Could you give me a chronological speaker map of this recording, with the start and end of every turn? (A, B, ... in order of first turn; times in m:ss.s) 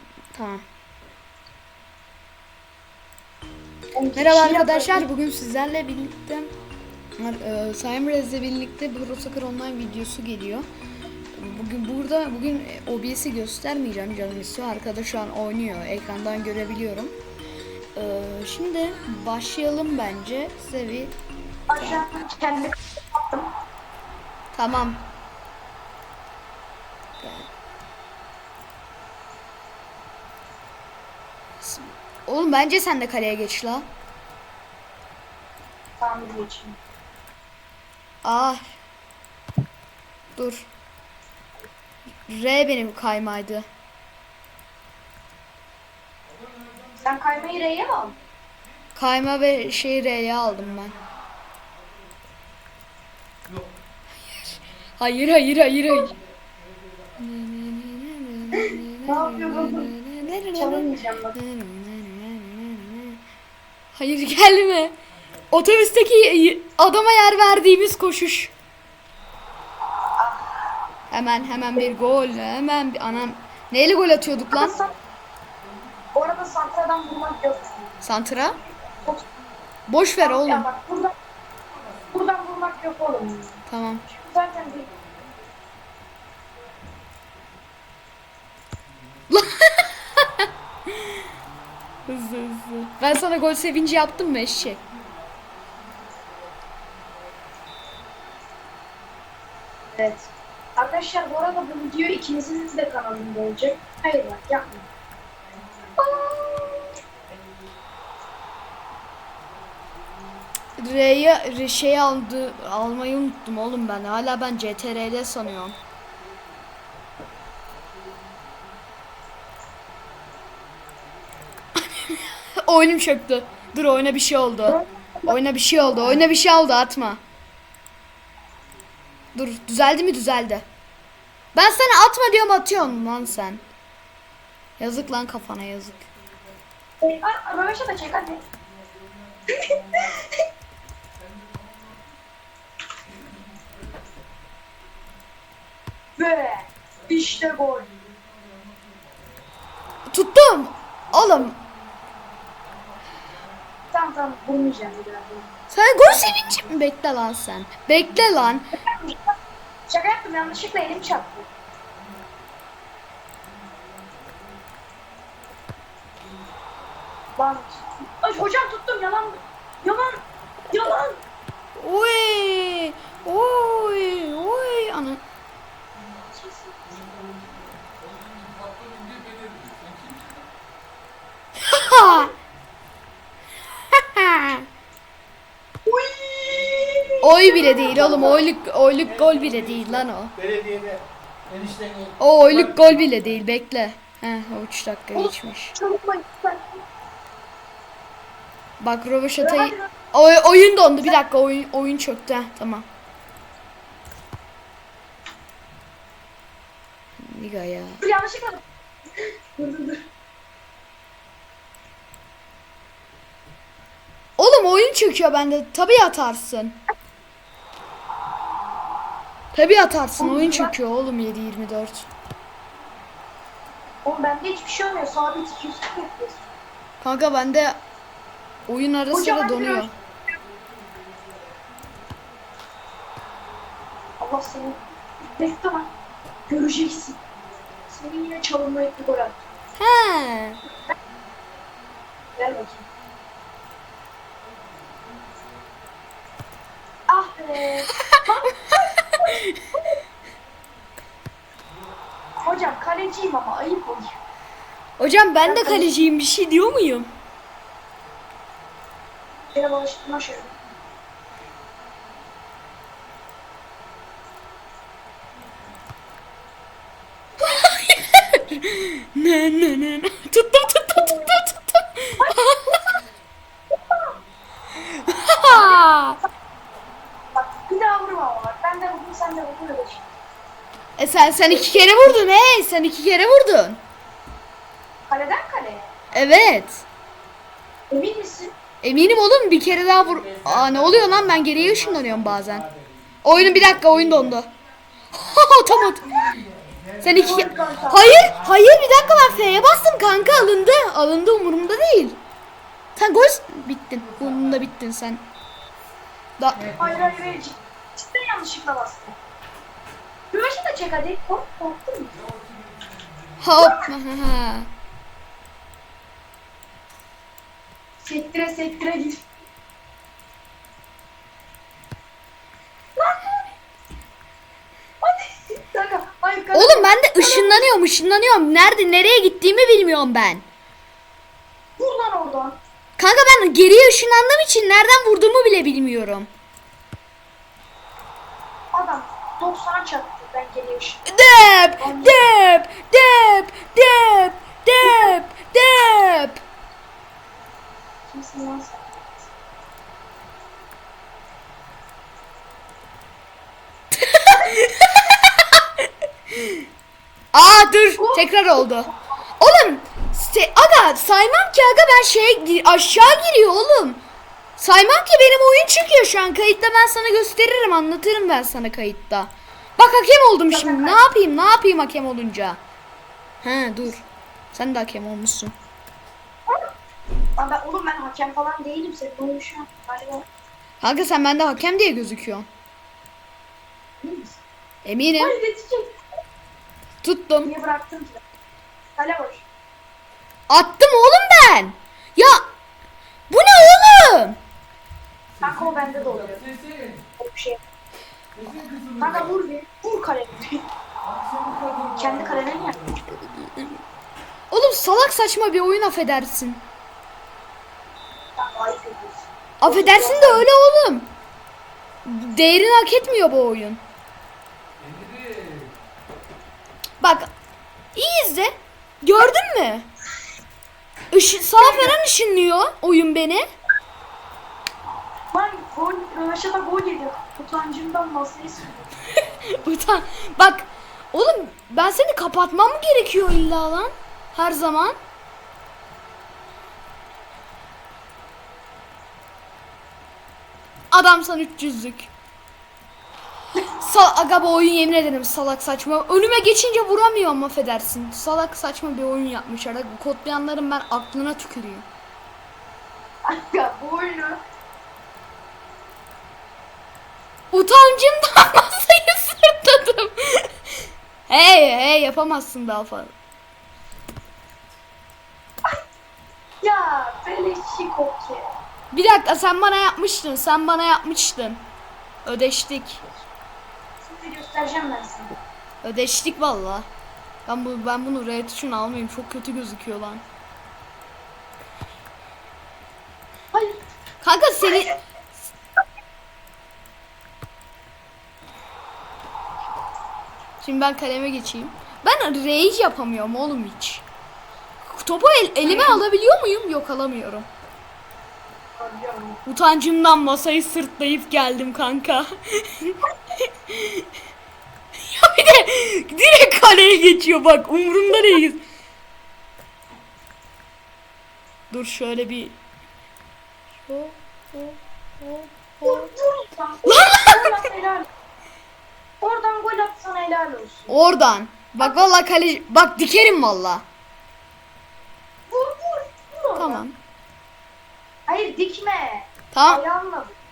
0:00.3-0:00.6 A
0:03.9-0:05.1 B
0:04.1-0:06.5 A
0:07.2-0:10.6 A
0:11.4-0:17.1 A
0:17.9-0:21.1 A
0:21.7-0:23.5 B
0:21.8-0:22.1 A
0:24.5-0:25.0 A
0:27.2-0:27.5 A
0:31.6-0:33.8 A
0:36.0-0:36.8 B
0:38.2-0:38.7 A
0:40.4-0:40.7 A
0:42.2-0:43.6 A
0:47.0-0:48.2 B
0:49.0-0:51.0 A
0:54.2-0:56.1 A
0:57.2-1:03.2 A
0:58.5-0:59.9 B
1:00.5-1:01.3 B
1:03.9-1:05.0 A
1:05.5-1:08.5 A
1:10.2-1:10.7 B
1:11.1-1:14.8 A
1:14.5-1:14.9 B
1:16.1-1:17.9 B
1:18.0-1:18.6 A
1:19.0-1:19.3 B
1:19.9-1:20.7 A
1:20.2-1:21.1 B
1:22.1-1:24.9 B
1:23.7-1:24.0 A
1:29.3-1:31.2 A
1:32.1-1:34.8 A
1:39.9-1:44.8 B
1:46.0-1:47.0 B
1:50.8-1:55.8 A
2:01.8-2:07.2 A
2:04.7-2:05.3 B
2:09.3-2:10.6 A
2:11.5-2:13.6 A
2:14.8-2:16.1 A
2:17.0-2:18.4 B
2:19.5-2:20.3 B
2:26.2-2:27.9 B
2:30.1-2:31.6 A
2:33.9-2:35.5 B
2:35.7-2:38.7 A
2:36.2-2:36.5 B
2:38.8-2:39.2 B
2:39.9-2:41.5 B
2:47.4-2:51.2 B
2:51.8-2:55.2 A
2:56.2-2:57.4 B
2:58.1-3:00.1 C
3:01.6-3:02.3 A
3:02.0-3:02.3 B
3:03.9-3:04.6 A
3:05.8-3:08.4 B
3:07.2-3:10.4 A
3:10.6-3:11.0 C
3:11.6-3:12.0 C
3:12.2-3:15.7 A
3:15.1-3:16.8 B
3:18.8-3:22.8 A
3:19.4-3:19.9 B
3:27.2-3:28.0 A
3:28.0-3:28.6 B
3:29.2-3:30.0 B
3:34.4-3:36.8 A
3:39.5-3:42.1 A
3:40.2-3:40.7 B
3:44.0-3:46.5 B
3:47.0-3:47.8 A
3:48.7-3:49.9 A
3:49.1-3:49.9 B
3:54.2-3:54.8 B
3:55.4-3:55.9 B
3:56.5-3:57.2 B
3:57.9-3:59.4 B
3:59.8-4:00.6 A
4:02.4-4:02.8 B
4:07.1-4:09.1 B
4:08.7-4:09.6 A
4:12.4-4:14.2 B
4:15.0-4:17.1 A
4:15.4-4:16.0 B
4:19.5-4:20.5 B
4:27.4-4:32.8 A
4:31.0-4:31.3 B
4:33.7-4:34.2 B
4:34.8-4:36.2 A
4:35.5-4:35.8 B
4:37.4-4:40.0 B
4:41.0-4:43.8 A
4:41.5-4:41.8 B
4:45.1-4:45.9 B
4:46.1-4:46.8 A
4:47.9-4:48.5 B
4:48.8-4:52.7 A
4:53.2-4:54.5 A
4:55.1-4:56.1 A
4:57.0-5:02.2 A
4:57.2-4:58.1 B
5:03.0-5:05.2 A
5:06.4-5:06.7 A
5:06.7-5:09.2 B
5:10.3-5:12.2 B
5:13.4-5:14.7 A
5:13.6-5:13.9 B
5:18.0-5:19.2 B
5:23.0-5:23.5 B
5:25.0-5:27.6 B
5:26.5-5:30.4 A
5:31.8-5:32.6 B
5:33.0-5:36.3 A
5:38.7-5:41.1 B
5:41.1-5:46.4 A
5:41.8-5:42.2 B
5:44.8-5:45.2 B
5:48.1-5:49.3 B
5:53.9-5:55.8 A
5:56.3-5:56.6 A
5:57.3-6:04.0 A
6:04.6-6:12.6 A
6:10.5-6:11.0 B
6:13.4-6:15.5 A
6:17.4-6:20.2 B
6:20.8-6:22.5 A
6:24.0-6:24.4 B
6:24.8-6:25.4 A
6:25.2-6:25.9 B
6:27.0-6:27.5 A
6:27.4-6:28.2 B
6:29.0-6:29.4 B
6:30.5-6:32.4 A
6:33.3-6:34.4 A
6:35.4-6:36.5 B
6:37.0-6:37.6 B
6:38.4-6:38.8 C
6:39.0-6:40.6 B
6:41.1-6:41.8 C
6:41.8-6:42.8 B
6:43.1-6:43.7 A
6:44.5-6:46.6 A
6:48.4-6:50.5 B
6:49.6-6:51.1 A
6:52.0-6:53.8 A
6:54.8-6:55.5 C
6:57.0-6:57.3 A
6:57.9-6:59.9 A
7:01.1-7:03.4 A
7:01.6-7:02.0 B
7:05.3-7:08.8 B
7:09.3-7:15.0 A
7:20.9-7:22.1 A
7:23.6-7:31.9 A
7:33.2-7:34.4 B
7:37.5-7:40.5 A
7:41.3-7:43.1 A
7:46.6-7:48.5 B
7:48.9-7:51.6 A
7:52.2-7:53.0 A
7:54.0-7:55.3 B
7:55.8-7:56.8 A
7:57.4-8:00.2 A
8:03.5-8:03.8 B
8:04.2-8:04.9 A
8:10.6-8:14.0 A
8:14.8-8:17.5 A
8:15.6-8:16.0 B
8:18.8-8:19.4 B
8:19.4-8:23.0 A
8:23.7-8:24.0 A
8:25.0-8:28.6 A
8:31.7-8:32.5 A
8:33.8-8:36.1 A
8:35.8-8:38.0 B
8:36.8-8:37.5 A
8:39.2-8:40.9 B
8:40.9-8:43.8 A
8:41.8-8:42.1 B
8:45.5-8:46.8 B
8:46.6-8:46.9 A
8:48.3-8:50.3 B
8:49.5-8:49.8 A